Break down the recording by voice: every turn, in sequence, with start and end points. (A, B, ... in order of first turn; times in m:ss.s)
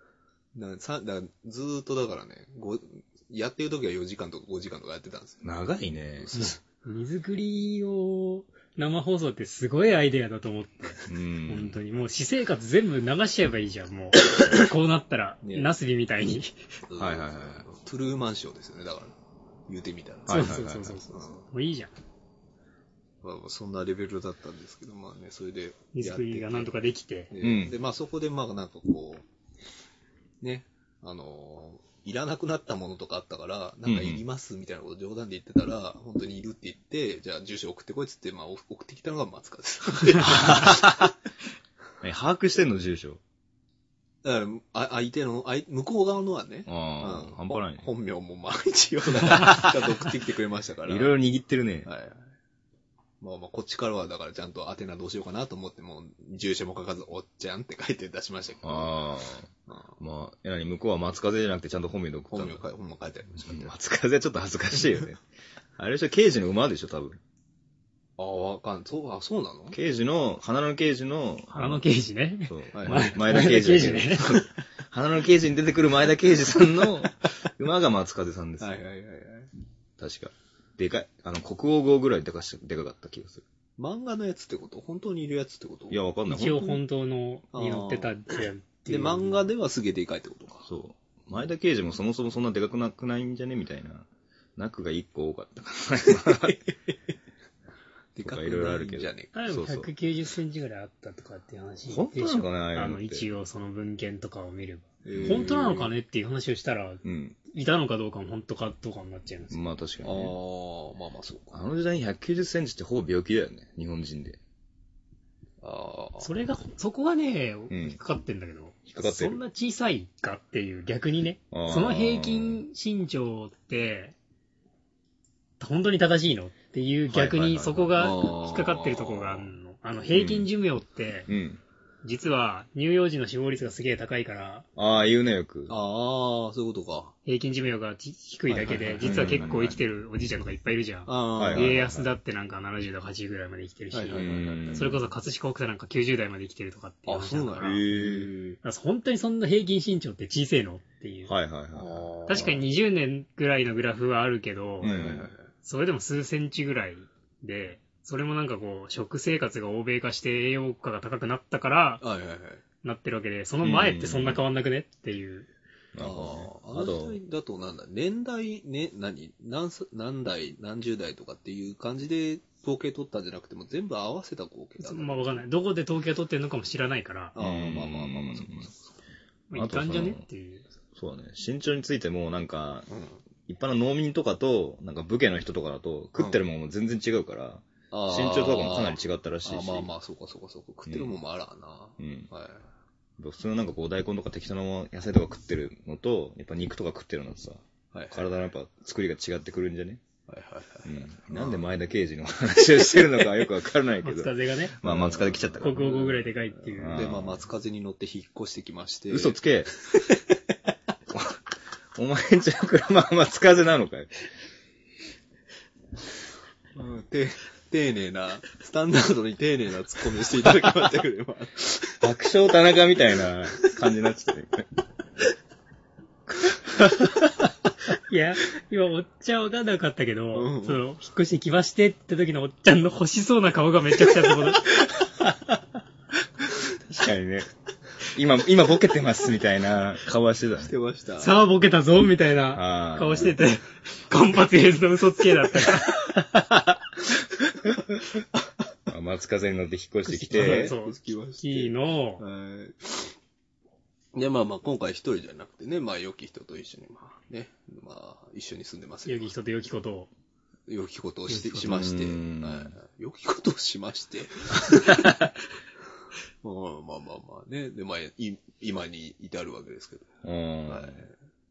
0:00.5-0:05.5 A
0:05.4-0:06.5 B
0:06.3-0:16.6 C
0:11.0-0:11.8 B
0:15.4-0:15.7 A
0:16.9-0:19.1 A
0:17.0-0:17.6 B
0:19.7-0:20.6 A
0:20.3-0:21.0 B
0:20.3-0:21.9 C
0:21.1-0:21.5 A
0:23.2-0:26.7 A
0:25.9-0:27.3 C
0:27.3-0:29.2 A
0:27.4-0:27.7 B
0:30.4-0:41.1 A
0:33.8-0:34.2 B
0:40.2-0:41.1 B
0:42.0-0:43.2 B
0:44.2-0:51.1 A
0:46.7-0:47.9 B
0:49.2-0:49.6 B
0:50.8-0:51.9 B
0:51.8-0:52.3 A
0:53.2-0:59.0 A
0:58.6-0:59.5 B
0:59.7-1:00.0 A
1:00.0-1:02.6 B
1:02.3-1:03.7 A
1:03.4-1:05.2 B
1:05.8-1:07.2 B
1:08.2-1:09.8 A
1:09.7-1:11.8 B
1:11.5-1:14.5 C
1:12.5-1:18.8 B
1:12.7-1:13.1 A
1:18.6-1:19.5 A
1:20.0-1:23.4 B
1:23.8-1:26.0 A
1:25.9-1:26.8 B
1:26.3-1:29.4 C
1:27.5-1:30.7 A
1:30.6-1:36.6 B
1:36.2-1:36.6 A
1:38.1-1:39.3 A
1:38.2-1:39.9 B
1:39.3-1:49.6 C
1:41.9-1:43.3 B
1:45.0-1:45.9 A
1:45.1-1:45.7 B
1:47.0-1:47.4 B
1:49.5-1:50.4 B
1:50.0-1:51.6 A
1:51.5-1:54.4 B
1:55.6-1:56.3 A
1:56.2-2:04.1 C
1:57.7-1:58.0 B
1:58.9-1:59.4 B
2:01.5-2:02.6 B
2:05.6-2:11.3 C
2:07.1-2:08.2 B
2:08.0-2:09.5 A
2:10.1-2:10.5 B
2:11.3-2:11.6 B
2:12.0-2:14.7 C
2:14.8-2:15.8 B
2:15.7-2:17.1 A
2:17.2-2:27.8 C
2:18.5-2:19.6 A
2:19.0-2:19.8 B
2:21.1-2:21.8 A
2:21.4-2:22.1 B
2:23.9-2:25.0 A
2:24.1-2:25.0 B
2:27.1-2:28.6 A
2:27.6-2:28.3 B
2:28.6-2:31.3 C
2:31.2-2:32.6 B
2:31.7-2:32.6 A
2:32.3-2:35.1 C
2:34.8-2:35.3 B
2:34.8-2:35.5 A
2:35.6-2:42.0 C
2:42.0-2:42.6 A
2:42.8-2:45.5 C
2:43.6-2:44.4 B
2:45.9-2:47.2 B
2:46.0-2:55.4 A
2:54.8-2:57.4 C
2:57.3-2:58.9 A
2:57.4-2:58.7 B
2:59.5-3:00.7 C
2:59.5-3:00.2 B
3:00.9-3:02.9 B
3:02.9-3:03.2 A
3:03.4-3:09.9 B
3:07.9-3:12.7 A
3:10.8-3:11.2 B
3:12.0-3:12.3 B
3:13.2-3:20.0 B
3:17.9-3:18.2 A
3:20.3-3:21.6 A
3:20.8-3:27.4 B
3:24.0-3:24.8 C
3:24.8-3:25.8 A
3:25.6-3:27.1 C
3:26.8-3:30.3 A
3:29.1-3:29.7 B
3:31.1-3:31.4 B
3:31.9-3:34.1 B
3:36.8-3:42.1 A
3:42.0-3:44.7 B
3:47.9-3:54.8 C
3:50.3-3:50.8 A
3:56.9-3:57.5 B
3:58.0-4:00.7 B
4:00.6-4:01.3 A
4:01.2-4:06.2 C
4:02.5-4:03.4 B
4:08.9-4:10.7 B
4:10.0-4:12.2 C
4:10.3-4:13.1 A
4:14.1-4:19.3 A
4:19.0-4:20.1 C
4:20.7-4:25.1 A
4:21.3-4:21.8 C
4:21.6-4:22.8 B
4:24.7-4:25.1 B
4:26.4-4:30.1 A
4:30.2-4:31.1 B
4:30.6-4:31.1 A